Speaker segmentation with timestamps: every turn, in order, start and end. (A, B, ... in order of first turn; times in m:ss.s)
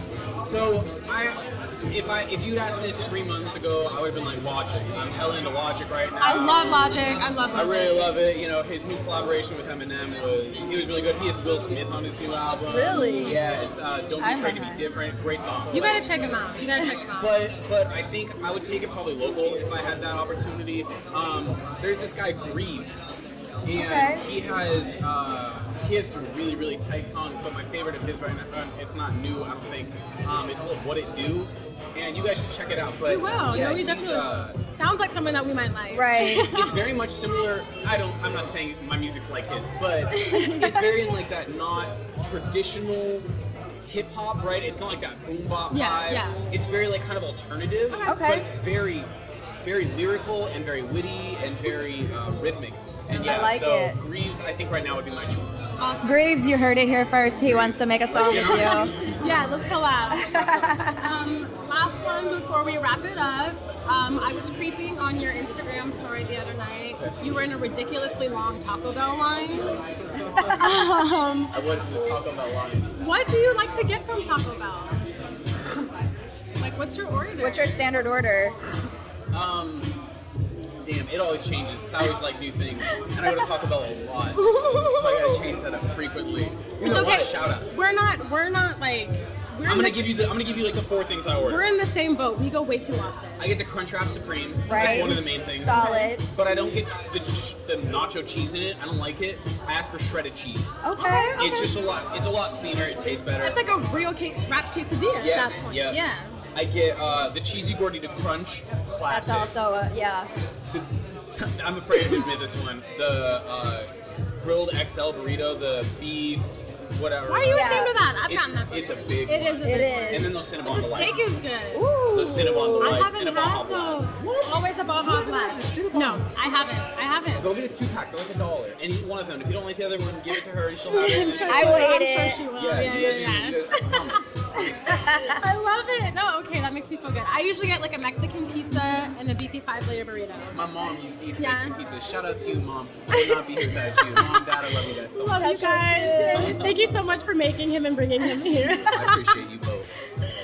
0:00.4-0:16.1 A
0:06.2-0:08.1 B
0:12.7-0:13.4 C
0:14.2-0:14.8 C
0:15.7-0:17.4 B
0:16.8-0:34.6 A
0:23.7-0:24.2 C
0:33.0-0:37.1 B
0:35.9-0:36.5 C
0:36.3-0:43.3 A
0:40.1-0:40.7 B
0:40.3-0:40.8 C
0:43.8-0:49.1 A
0:45.7-0:46.4 B
0:47.9-0:48.3 B
0:48.1-0:48.5 C
0:49.6-0:55.8 A
0:53.1-0:54.0 C
0:55.8-0:56.2 B
0:56.0-0:58.9 C
0:57.4-0:59.0 A
0:58.3-1:09.8 B
1:00.1-1:01.1 C
1:06.9-1:07.2 A
1:10.2-1:10.5 A
1:10.3-1:10.8 C
1:10.5-1:11.6 B
1:11.5-1:13.0 A
1:13.0-1:15.0 B
1:16.6-1:17.7 B
1:17.4-1:18.6 C
1:19.3-1:20.0 A
1:20.8-1:27.7 A
1:23.0-1:23.5 B
1:24.4-1:25.5 B
1:26.8-1:30.3 B
1:29.6-1:31.7 A
1:31.4-1:33.5 B
1:33.4-1:40.8 A
1:34.7-1:36.3 C
1:34.7-1:36.2 B
1:40.8-1:41.4 C
1:40.9-1:41.8 B
1:41.4-1:43.6 A
1:43.4-1:46.4 B
1:45.2-1:46.0 A
1:46.5-1:49.5 A
1:49.1-1:50.3 C
1:50.7-2:01.4 A
1:57.3-2:01.9 B
1:57.5-1:57.9 C
1:59.6-2:00.3 C
2:01.7-2:03.1 C
2:02.1-2:06.2 A
2:02.8-2:07.5 B
2:07.3-2:14.9 A
2:10.9-2:20.6 B
2:11.4-2:12.4 C
2:14.7-2:15.4 C
2:20.5-2:25.7 A
2:21.4-2:21.8 B
2:23.1-2:24.4 C
2:25.1-2:29.0 B
2:25.4-2:26.7 C
2:26.2-2:26.9 A
2:28.6-2:29.2 C
2:28.9-2:29.9 A